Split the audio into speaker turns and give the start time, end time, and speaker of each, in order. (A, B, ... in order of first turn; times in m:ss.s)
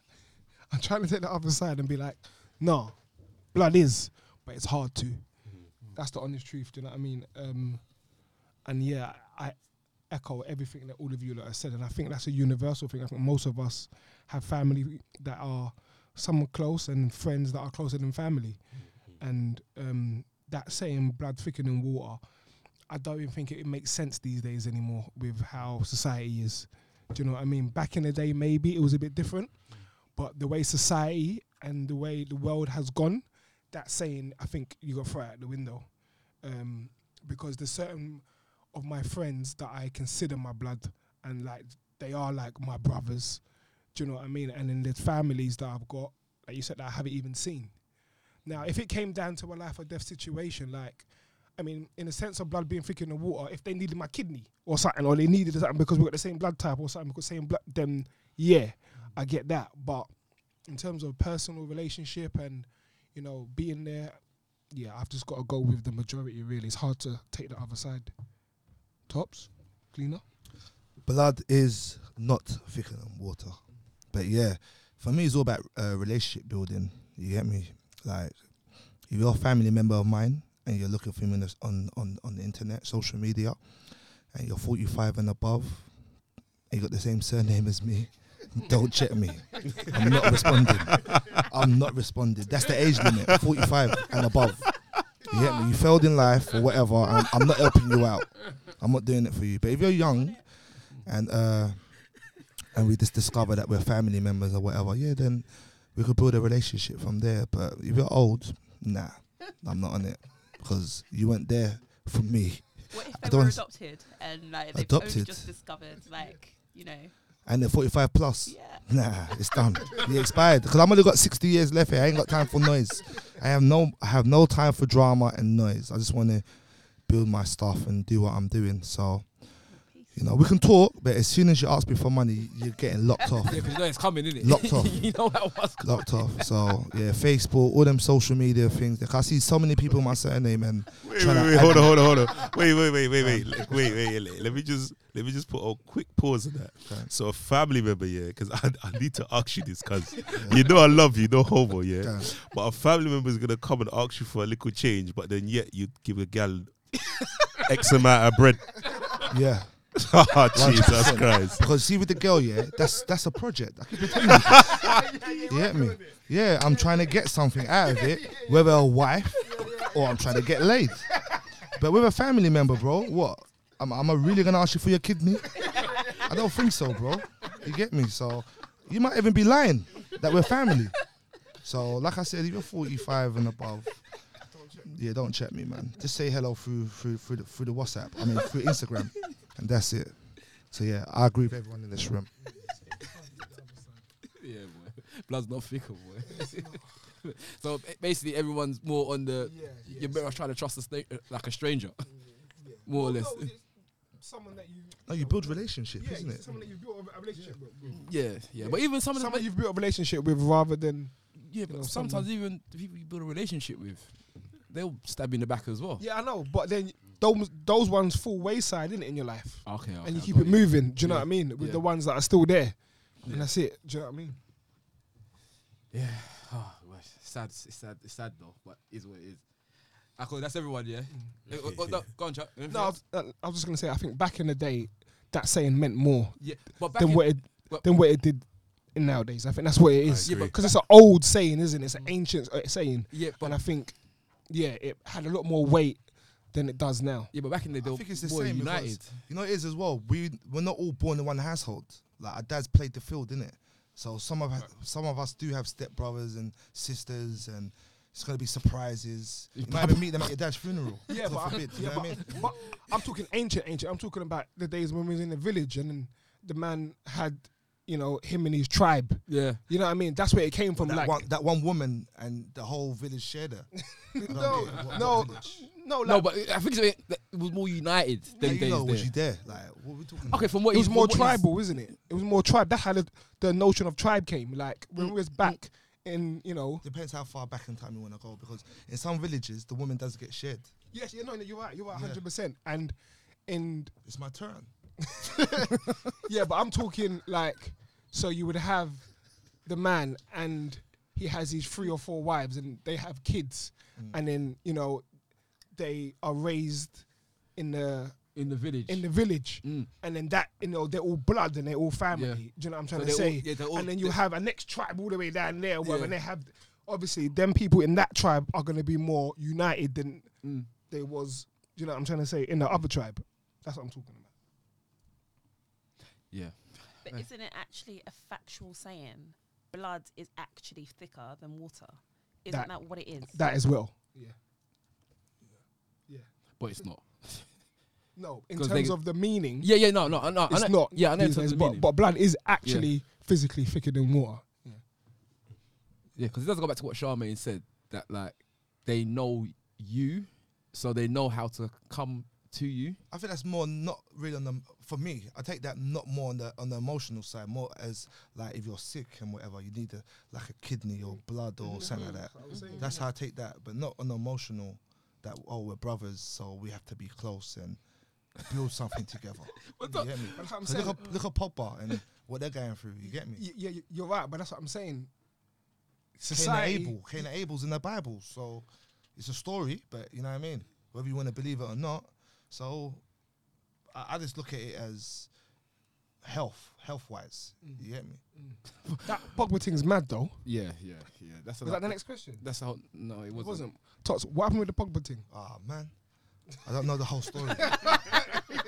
0:00.7-1:10.2 A
0:05.4-0:06.0 B
0:18.7-0:19.2 B
1:11.0-1:53.7 C
1:31.0-1:31.5 B
1:40.1-1:40.4 D
1:52.9-1:57.2 D
1:54.7-1:55.6 C
1:57.4-2:22.5 C
1:58.5-1:59.4 D
2:09.7-2:10.3 D
2:13.5-2:16.5 E
2:21.0-2:37.1 B
2:23.2-2:23.8 C
2:26.9-2:27.1 C
2:30.4-2:30.6 C
2:32.0-2:32.3 C
2:37.6-2:38.7 B
2:39.3-3:04.3 C
2:40.0-2:41.6 B
2:44.1-2:48.8 A
2:44.5-2:45.0 B
2:49.4-2:50.7 A
2:55.6-2:56.9 A
3:04.5-3:04.8 A
3:04.8-3:12.5 C
3:12.5-3:14.0 A
3:14.3-3:23.6 E
3:16.4-3:16.9 A
3:19.4-3:20.4 A
3:22.1-3:32.3 A
3:25.1-3:26.6 C
3:27.3-3:27.6 C
3:27.9-3:29.5 E
3:31.4-3:36.1 E
3:36.0-3:44.4 A
3:39.6-3:41.9 E
3:43.2-3:43.5 E
3:45.9-3:53.0 E
3:51.5-3:52.4 B
3:52.3-4:07.3 A
3:56.4-3:58.0 E
4:00.0-4:00.7 B
4:00.2-4:00.8 E
4:03.1-4:04.0 E
4:07.3-4:09.2 E
4:07.8-4:22.4 C
4:19.5-4:20.5 E
4:21.1-4:31.1 A
4:21.2-4:22.7 E
4:29.3-4:29.7 E
4:30.8-4:35.7 C
4:34.0-4:36.3 A
4:36.0-4:39.1 E
4:38.3-4:38.7 A
4:38.4-4:40.6 C
4:40.3-4:41.7 E
4:40.7-4:46.8 A
4:45.0-4:45.6 E
4:46.8-4:50.8 C
4:50.9-4:54.0 A
4:51.9-4:52.2 C
4:54.0-4:55.5 C
4:55.2-5:24.3 A
5:04.0-5:04.2 C
5:08.3-5:09.9 E
5:12.1-5:14.2 E
5:15.8-5:16.2 E
5:20.4-5:20.7 E
5:26.3-5:27.2 E
5:27.0-5:33.5 D
5:32.5-5:34.4 A
5:36.1-5:36.8 A
5:36.6-5:37.9 E
5:38.2-5:44.8 A
5:38.6-5:43.0 E
5:46.2-5:53.0 E
5:53.1-6:13.5 C
6:01.1-6:03.1 A
6:02.5-6:02.9 D
6:09.7-6:11.2 E
6:09.8-6:11.1 A
6:13.1-6:15.1 A
6:16.2-6:17.0 A
6:16.3-6:23.3 C
6:23.9-6:25.7 C
6:26.2-6:28.3 C
6:27.6-6:30.4 A
6:30.4-6:33.8 E
6:31.6-6:32.5 A
6:33.3-6:35.3 A
6:35.3-6:38.2 C
6:37.6-6:38.5 A